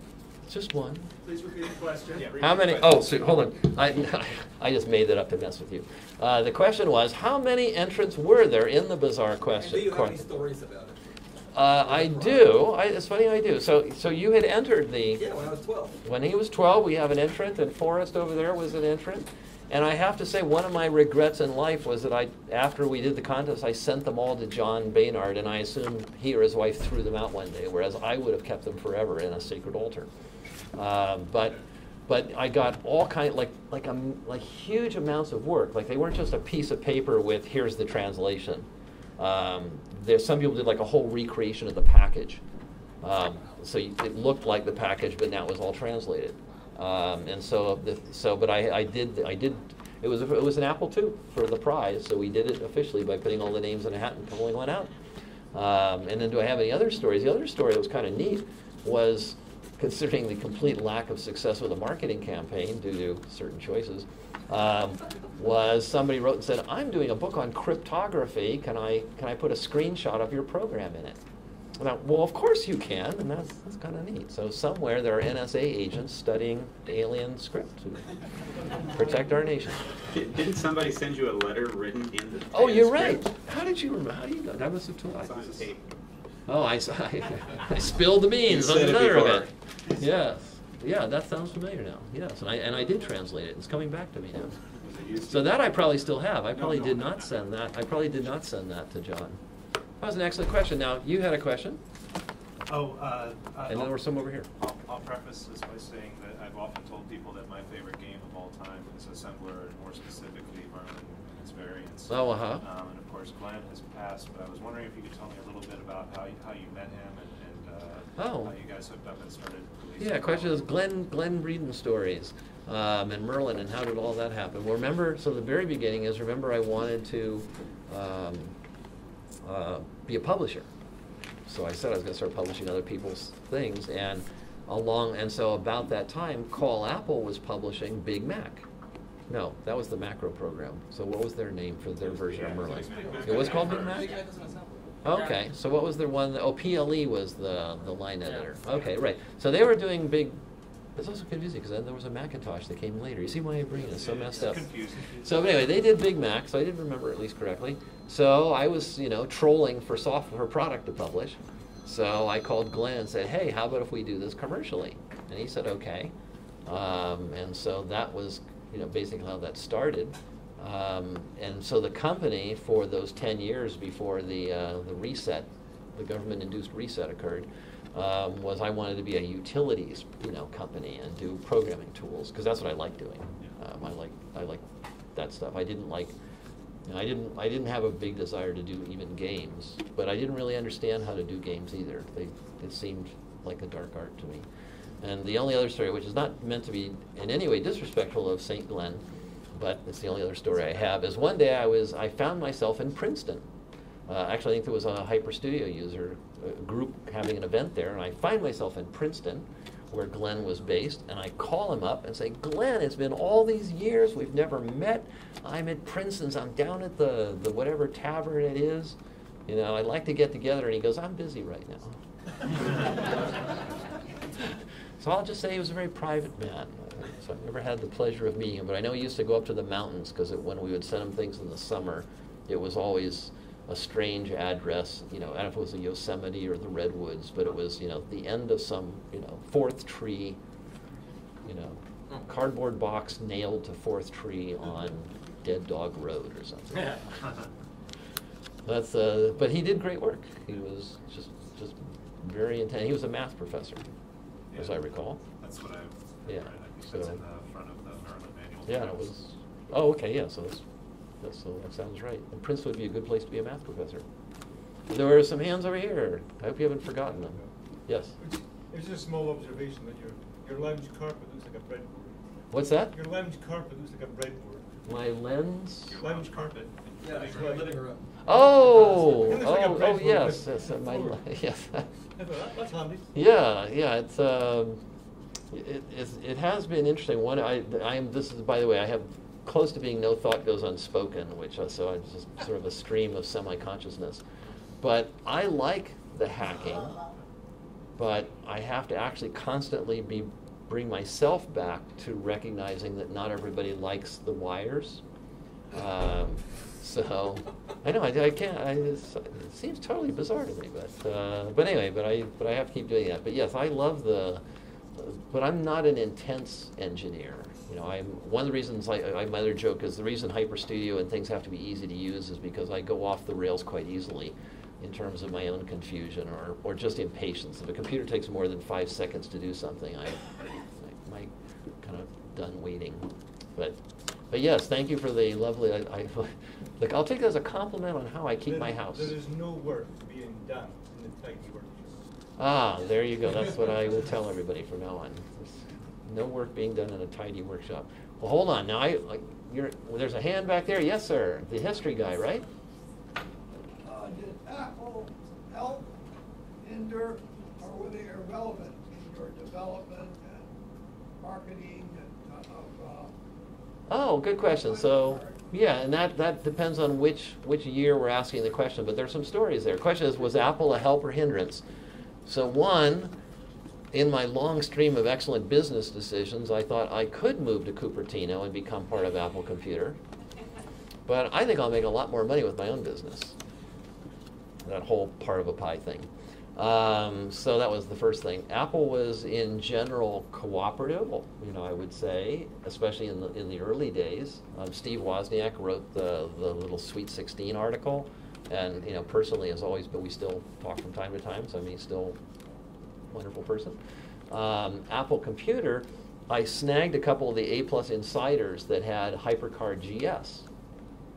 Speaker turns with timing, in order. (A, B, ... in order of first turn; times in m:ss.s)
0:00.5-0:01.1 A
0:02.2-0:02.6 B
0:02.2-0:03.0 C
0:02.4-0:10.3 A
0:09.6-0:11.0 D
0:11.5-0:15.2 A
0:11.8-0:12.5 D
0:15.2-0:16.0 D
0:16.0-0:30.1 A
0:30.8-0:38.7 A
0:39.2-0:42.4 A
0:43.0-0:54.9 A
0:55.5-1:11.2 A
1:11.8-1:18.0 A
1:19.0-1:19.8 A
1:20.1-1:23.2 C
1:22.5-1:25.5 A
1:25.3-1:25.8 C
1:26.5-1:34.5 A
1:28.5-1:29.5 C
1:34.8-1:35.7 B
1:35.2-1:39.4 A
1:36.5-1:37.3 B
1:40.0-1:41.8 A
1:42.7-2:00.8 B
1:43.7-1:44.5 A
1:52.1-1:52.6 A
1:58.2-1:58.6 A
2:00.0-2:08.6 A
2:09.4-2:10.7 A
2:11.5-2:18.7 A
2:19.3-2:24.1 A
2:22.2-2:24.2 B
2:23.1-2:25.3 D
2:25.0-2:30.4 A
2:31.0-2:46.1 A
2:33.9-2:35.3 B
2:46.7-3:04.6 A
3:05.2-3:06.2 A
3:06.9-3:14.5 A
3:15.0-3:23.4 A
3:24.1-3:42.0 A
3:45.0-4:00.4 A
4:01.4-4:07.0 A
4:08.7-4:13.8 A
4:14.5-4:14.8 B
4:14.6-4:15.2 A
4:15.4-4:19.0 B
4:16.3-4:17.2 A
4:18.7-4:20.6 A
4:21.2-4:24.0 A
4:24.9-4:28.2 A
4:28.2-4:32.2 E
4:32.5-4:32.9 A
4:32.9-4:34.7 E
4:34.9-4:36.0 A
4:35.9-4:37.8 B
4:36.0-4:37.8 E
4:37.0-4:38.0 D
4:38.2-4:41.9 A
4:38.6-4:41.2 E
4:42.2-4:43.1 E
4:43.1-4:44.8 A
4:45.5-4:54.2 A
4:54.8-4:57.0 A
4:58.0-5:05.0 A
5:05.7-5:14.4 A
5:15.0-5:33.8 A
5:34.3-5:39.2 A
5:38.4-5:42.0 E
5:42.4-5:52.4 A
5:53.8-5:55.9 F
5:56.6-6:00.5 F
6:01.2-6:03.1 F
6:03.9-6:11.6 A
6:04.4-6:05.5 F
6:12.3-6:13.1 A
6:13.9-6:20.0 A
6:21.1-6:23.4 A
6:24.6-6:42.2 A
6:43.1-6:43.8 A
6:44.3-6:50.5 A